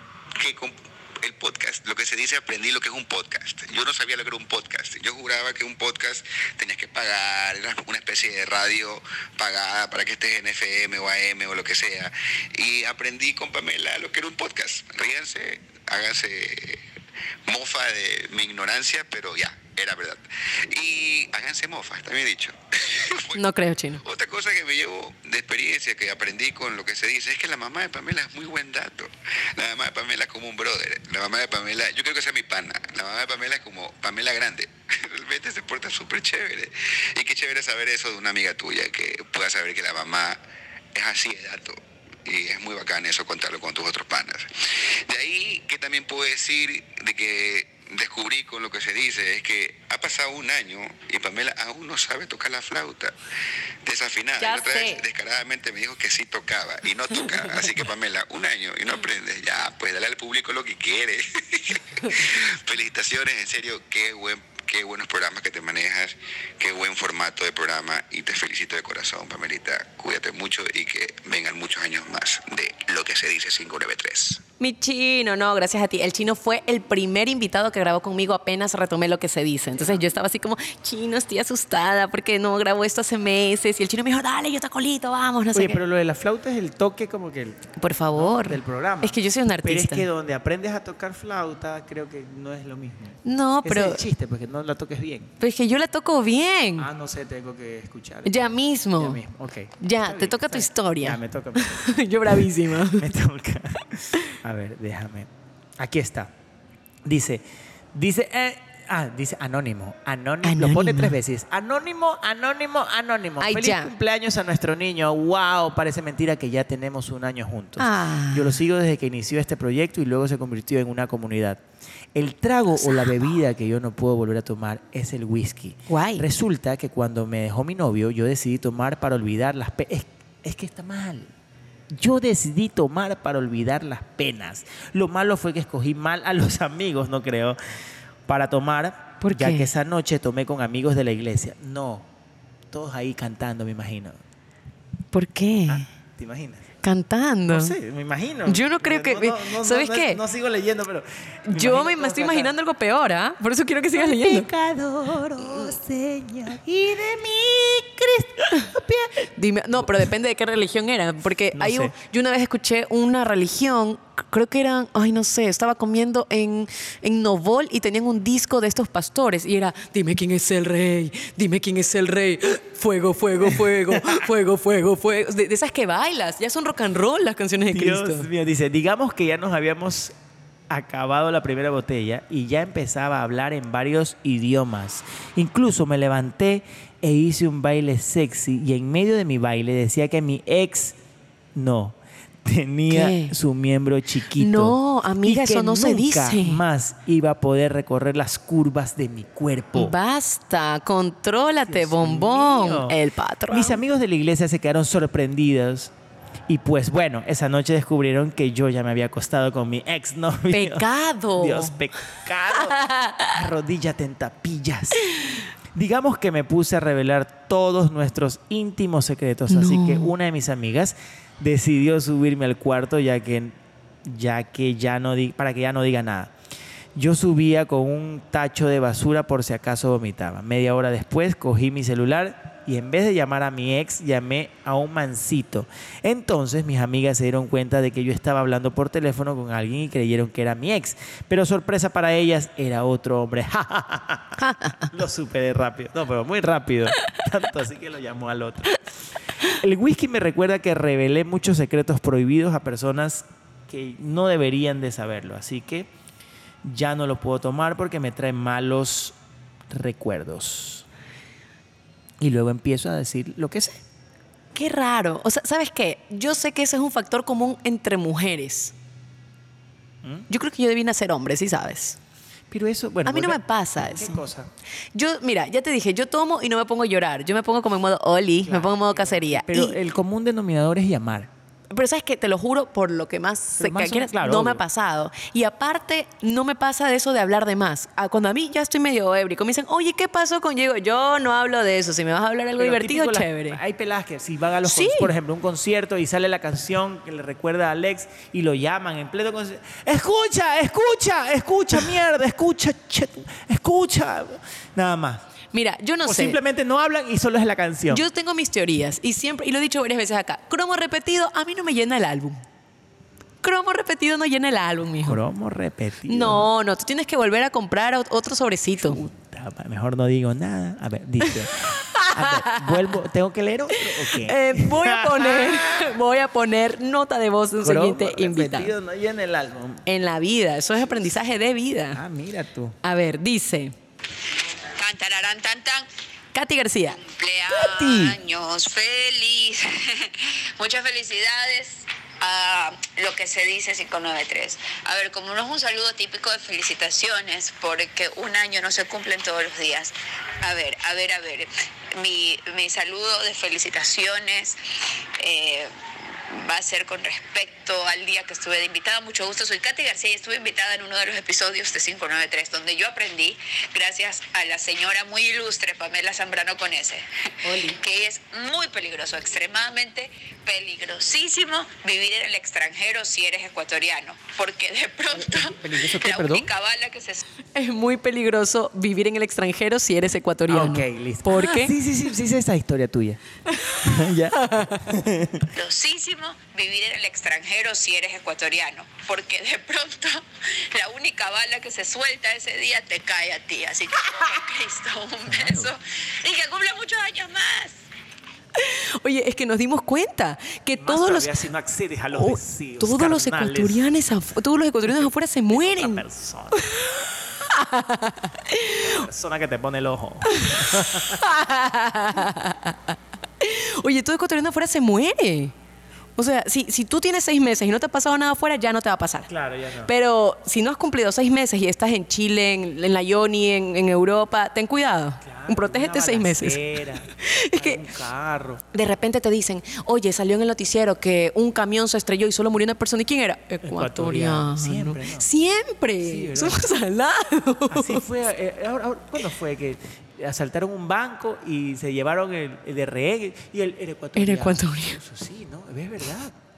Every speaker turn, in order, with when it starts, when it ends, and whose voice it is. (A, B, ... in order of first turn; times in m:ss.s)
0:00.4-0:16.8 A
0:17.5-0:23.4 A
0:23.3-0:24.0 B
0:24.0-0:40.4 A
0:40.9-0:53.1 A
0:53.8-1:14.4 A
0:54.4-0:55.0 B
1:14.6-1:25.8 B
1:25.5-1:35.3 C
1:27.8-1:30.1 B
1:33.2-1:34.0 B
1:35.4-1:36.9 B
1:36.8-1:38.4 C
1:38.2-1:39.2 B
1:39.0-1:46.3 C
1:39.8-1:43.1 B
1:47.0-1:47.4 C
1:47.9-2:01.6 C
1:50.4-1:51.2 B
1:53.4-1:53.9 B
1:57.8-1:58.6 B
2:02.1-2:11.3 C
2:05.9-2:06.2 B
2:11.9-2:17.6 C
2:18.3-2:22.1 C
2:19.2-2:19.7 B
2:22.7-2:24.2 C
2:25.1-2:25.9 B
2:25.7-2:26.7 C
2:26.8-2:27.8 B
2:27.5-2:32.5 C
2:28.5-2:30.2 B
2:31.5-2:34.5 B
2:33.9-2:39.2 C
2:35.3-2:35.7 B
2:39.4-2:58.3 B
2:39.8-2:40.1 C
2:41.6-2:41.9 C
2:53.9-2:54.2 C
2:57.7-3:00.1 C
3:00.7-3:11.0 C
3:11.6-3:20.0 C
3:12.9-3:13.4 B
3:14.4-3:16.6 B
3:19.8-3:23.8 B
3:21.6-3:23.0 C
3:23.5-3:25.9 C
3:26.5-3:46.3 C
3:30.5-3:31.7 B
3:32.7-3:33.3 B
3:39.5-3:40.1 B
3:47.0-4:08.8 C
4:04.4-4:04.9 B
4:09.6-4:15.9 C
4:16.6-4:19.2 C
4:19.7-4:20.9 C
4:22.2-4:23.8 C
4:24.6-4:28.7 B
4:30.3-4:32.0 B
4:32.5-4:34.5 C
4:33.1-4:34.3 B
4:34.9-4:39.8 B
4:38.4-4:41.3 C
4:41.7-4:53.6 B
4:43.6-4:44.6 C
4:52.6-5:05.2 C
4:54.6-4:55.1 B
5:05.5-5:06.4 B
5:06.0-5:08.1 C
5:07.9-5:12.4 B
5:13.4-5:15.2 B
5:15.0-5:16.5 C
5:16.1-5:19.0 B
5:18.8-5:26.0 C
5:21.9-5:22.8 B
5:23.7-5:28.7 B
5:27.6-5:29.8 C
5:29.9-5:32.0 B
5:31.9-5:32.8 C
5:32.8-5:33.8 B
5:34.8-5:35.9 D
5:36.3-5:37.0 B
5:36.9-5:54.6 D
5:37.5-5:38.2 C
5:55.2-5:55.7 D
5:56.3-6:07.0 D
6:07.4-6:07.8 C
6:07.6-6:17.2 D
6:15.1-6:16.5 C
6:17.6-6:21.8 B
6:20.5-6:23.2 C
6:23.6-6:24.9 B
6:23.8-6:25.5 C
6:25.6-6:37.8 D
6:35.3-6:35.7 C
6:38.6-6:41.4 B
6:40.8-6:43.9 C
6:42.1-6:46.0 B
6:44.9-6:46.6 C
6:47.4-6:49.0 B
6:48.8-6:51.2 C
6:50.3-6:55.5 B
6:56.2-6:59.3 B
6:59.3-6:59.9 C
6:59.8-7:07.8 B
7:05.2-7:08.6 C
7:08.7-7:18.0 B
7:13.6-7:15.3 C
7:16.0-7:16.7 C
7:17.7-7:26.4 C
7:24.2-7:25.0 B